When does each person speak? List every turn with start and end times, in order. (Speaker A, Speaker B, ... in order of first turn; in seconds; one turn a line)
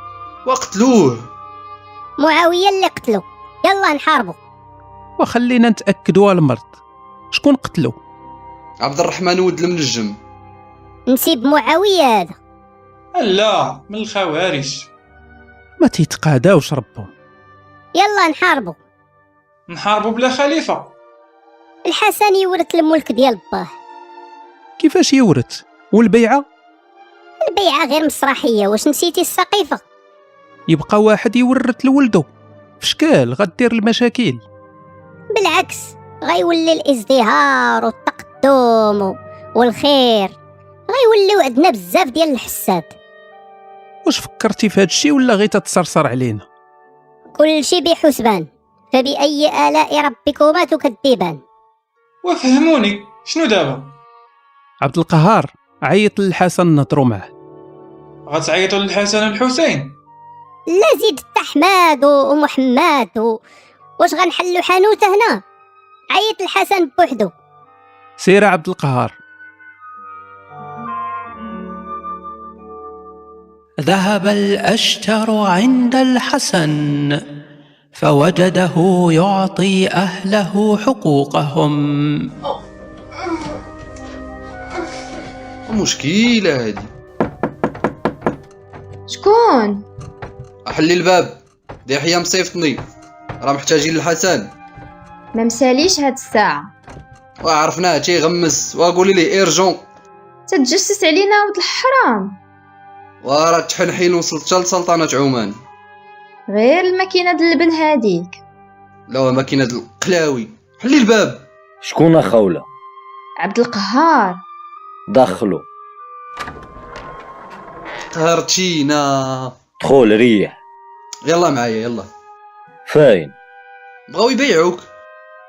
Speaker A: 0.4-1.2
Speaker B: 2.2-4.4
Speaker C: 5.2-6.7
Speaker C: 7.3-8.0
Speaker A: 8.8-10.2
Speaker B: 11.1-12.3
Speaker D: 13.1-14.9
Speaker C: 15.8-17.1
Speaker B: 17.9-18.8
Speaker D: 19.7-20.9
Speaker B: 21.8-23.7
Speaker C: 24.8-26.4
Speaker B: 27.4-29.8
Speaker C: 30.7-32.3
Speaker C: 32.8-34.4
Speaker B: 35.3-40.3
Speaker B: 40.9-42.9
Speaker C: 44.0-46.5
Speaker B: 47.3-51.4
Speaker D: 52.2-53.9
Speaker C: 54.8-57.3
Speaker D: 58.3-59.9
Speaker B: 60.7-63.4
Speaker B: 64.0-65.4
Speaker B: 66.1-67.3
Speaker C: 68.2-69.2
Speaker E: 73.8-77.2
Speaker E: 77.9-81.8
Speaker A: 85.7-86.9
Speaker F: 89.1-89.8
Speaker A: 90.7-92.8
Speaker A: 93.4-94.5
Speaker F: 95.3-96.7
Speaker A: 97.4-99.8
Speaker F: 100.5-102.4
Speaker A: 103.2-105.6
Speaker F: 106.5-108.4
Speaker A: 109.1-111.4
Speaker G: 111.8-112.6
Speaker F: 113.4-114.4
Speaker G: 115.1-115.6
Speaker A: 118.1-119.5
Speaker G: 119.8-120.5
Speaker A: 121.2-122.1
Speaker G: 122.9-123.3
Speaker A: 124.1-124.8